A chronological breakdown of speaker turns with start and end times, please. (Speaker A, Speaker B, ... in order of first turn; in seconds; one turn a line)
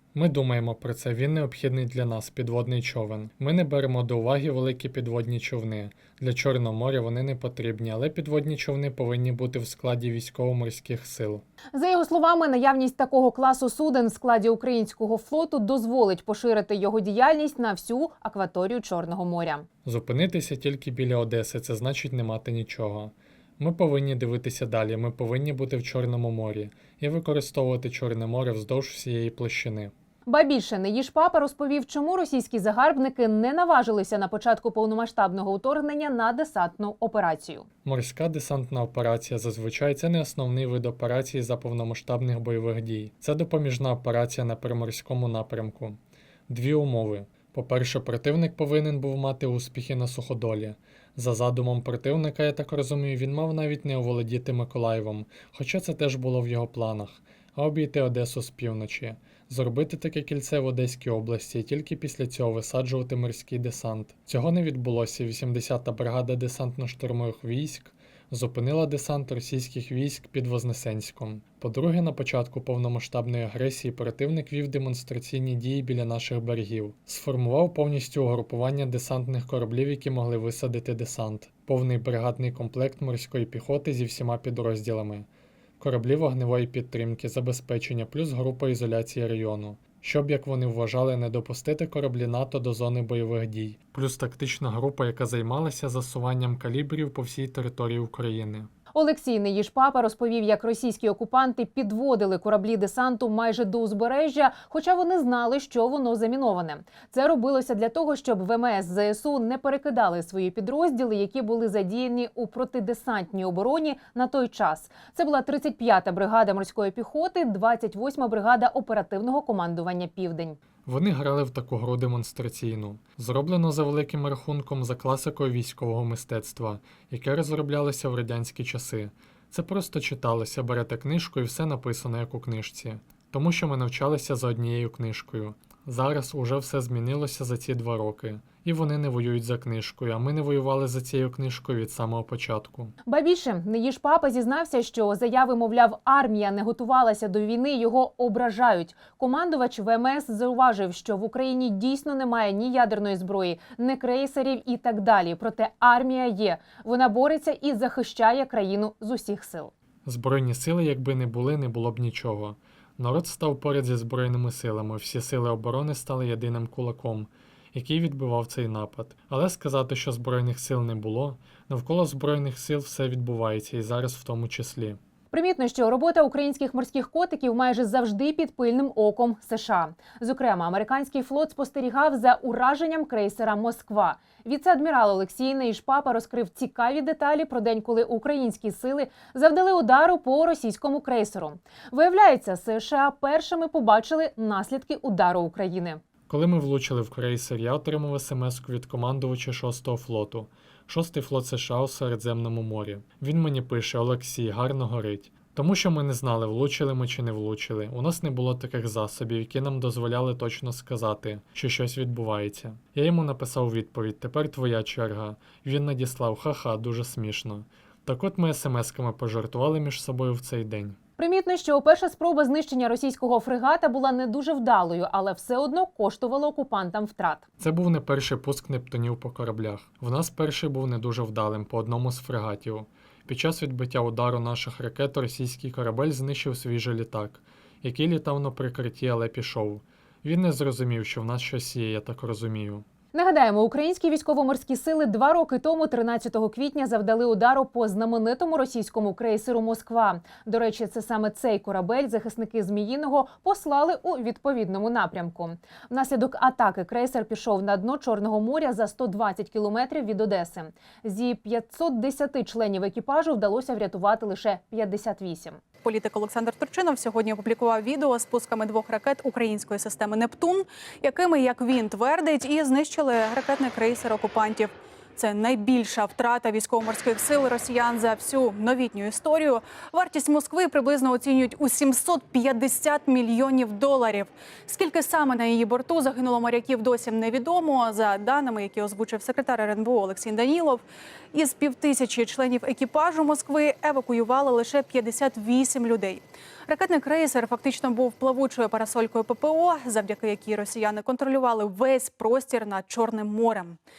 Speaker A: 0.1-11.4
Speaker B: 11.7-19.6
Speaker A: 19.8-29.9
Speaker B: 30.2-37.6
Speaker A: 37.8-85.3
Speaker A: 85.8-98.7
Speaker B: 98.9-120.6
Speaker A: 120.8-142.9
Speaker B: 143.1-159.7
Speaker A: 160.0-175.0
Speaker B: 175.3-196.0
Speaker A: 196.3-221.0
Speaker B: 221.2-227.4
Speaker A: 227.6-242.8
Speaker B: 243.1-265.6
Speaker C: 265.8-303.8